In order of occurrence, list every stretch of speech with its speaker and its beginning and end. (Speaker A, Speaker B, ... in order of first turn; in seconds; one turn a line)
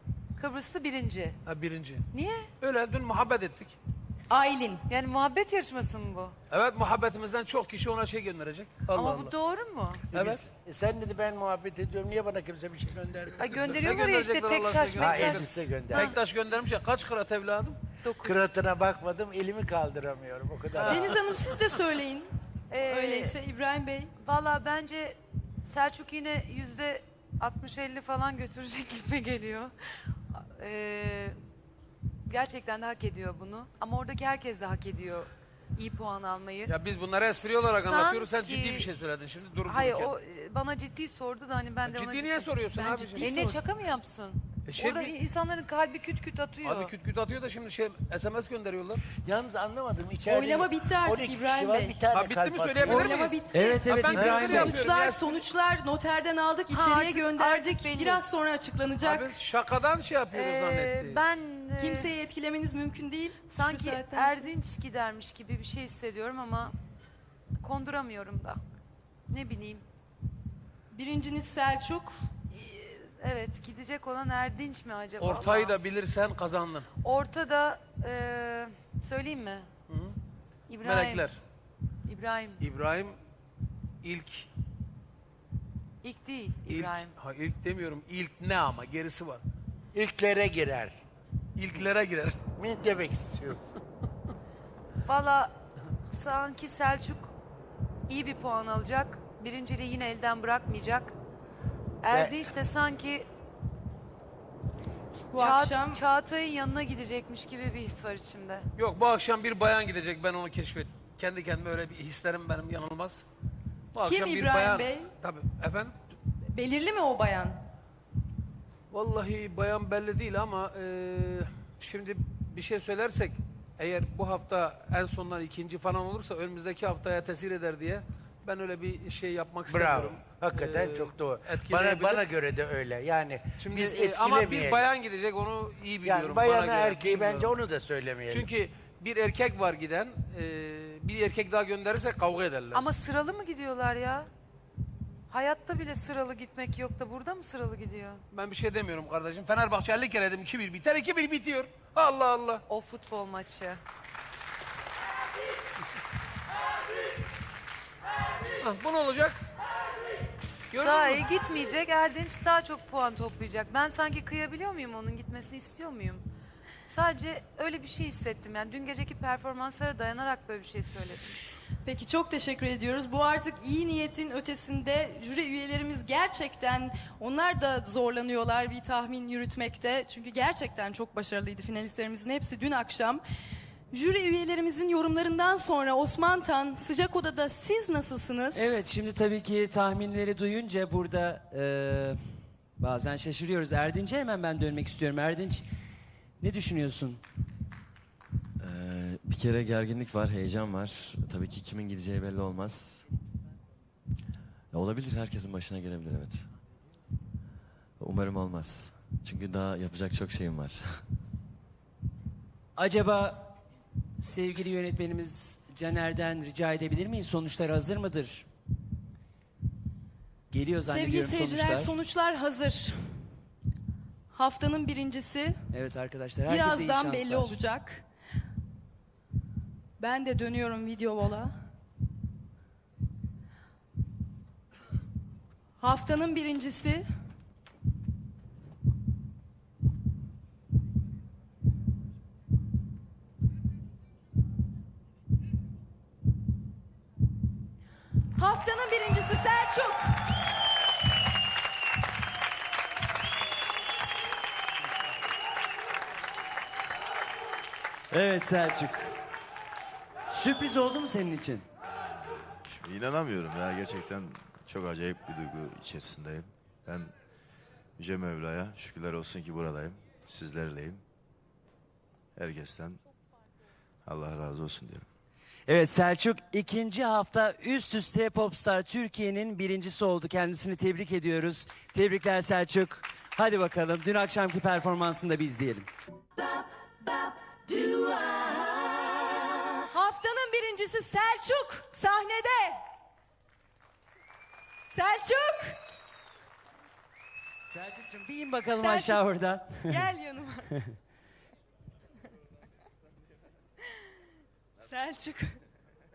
Speaker A: 0.4-1.4
Speaker B: 1.5-2.0
Speaker A: 2.1-2.5
Speaker B: 2.6-3.8
Speaker C: 4.3-4.8
Speaker A: 4.9-6.4
Speaker B: 6.5-9.3
Speaker A: 8.9-10.1
Speaker B: 10.1-10.4
Speaker D: 10.1-13.5
Speaker A: 13.4-16.2
Speaker B: 13.5-17.8
Speaker D: 14.9-16.2
Speaker A: 18.0-18.5
Speaker D: 18.2-21.2
Speaker B: 20.8-21.1
Speaker C: 20.9-22.3
Speaker A: 22.7-23.4
Speaker C: 22.8-24.1
Speaker A: 24.2-31.4
Speaker A: 32.3-36.8
Speaker B: 36.7-40.1
Speaker A: 37.4-38.9
Speaker A: 39.7-46.9
Speaker B: 41.9-43.6
Speaker B: 44.7-45.2
Speaker B: 46.6-49.0
Speaker D: 49.1-53.3
Speaker C: 50.3-52.0
Speaker B: 52.1-55.4
Speaker C: 52.9-59.3
Speaker E: 53.5-54.8
Speaker A: 56.7-58.2
Speaker B: 59.0-61.2
Speaker A: 60.3-62.1
Speaker C: 61.8-64.5
Speaker A: 63.5-66.8
Speaker A: 67.6-68.6
Speaker A: 69.3-69.8
Speaker C: 70.9-72.3
Speaker A: 72.5-75.8
Speaker B: 75.2-76.9
Speaker A: 77.0-79.7
Speaker B: 79.9-80.2
Speaker A: 80.7-81.3
Speaker B: 80.8-81.4
Speaker A: 82.1-82.6
Speaker B: 82.6-83.2
Speaker B: 84.0-84.5
Speaker A: 86.0-87.1
Speaker B: 86.7-89.4
Speaker D: 89.9-91.0
Speaker B: 91.6-92.4
Speaker D: 92.6-93.7
Speaker A: 95.1-95.5
Speaker A: 96.1-97.3
Speaker A: 98.1-101.2
Speaker A: 102.0-103.3
Speaker D: 102.1-102.4
Speaker C: 105.3-106.0
Speaker A: 105.3-108.7
Speaker B: 108.8-113.2
Speaker B: 113.9-116.0
Speaker C: 114.0-115.1
Speaker C: 116.5-117.6
Speaker B: 118.9-132.3
Speaker D: 129.7-134.9
Speaker B: 133.6-137.6
Speaker D: 136.0-138.5
Speaker B: 138.3-142.9
Speaker A: 142.7-144.3
Speaker A: 145.3-148.2
Speaker B: 148.3-152.6
Speaker A: 152.7-153.8
Speaker B: 158.6-159.4
Speaker B: 160.7-161.2
Speaker A: 160.8-166.2
Speaker A: 166.9-171.4
Speaker C: 171.8-183.2
Speaker C: 183.9-188.7
Speaker E: 188.5-195.7
Speaker E: 196.4-197.2
Speaker F: 198.6-203.1
Speaker F: 204.7-206.5
Speaker F: 208.0-211.1
Speaker E: 212.8-213.6
Speaker E: 214.2-218.5
Speaker E: 220.5-221.9
Speaker C: 220.9-223.3
Speaker C: 224.3-225.6
Speaker E: 225.7-227.6
Speaker C: 226.5-228.1
Speaker C: 230.0-231.6
Speaker C: 235.8-237.1
Speaker C: 248.4-250.4
Speaker E: 258.1-259.1
Speaker E: 260.3-261.7
Speaker G: 262.6-267.1
Speaker G: 268.0-271.0
Speaker G: 272.4-273.0
Speaker G: 274.1-275.1
Speaker E: 275.7-285.9
Speaker C: 289.9-292.8
Speaker C: 294.9-295.8
Speaker E: 297.7-300.0
Speaker C: 298.8-299.2
Speaker C: 299.8-300.7
Speaker C: 304.8-305.6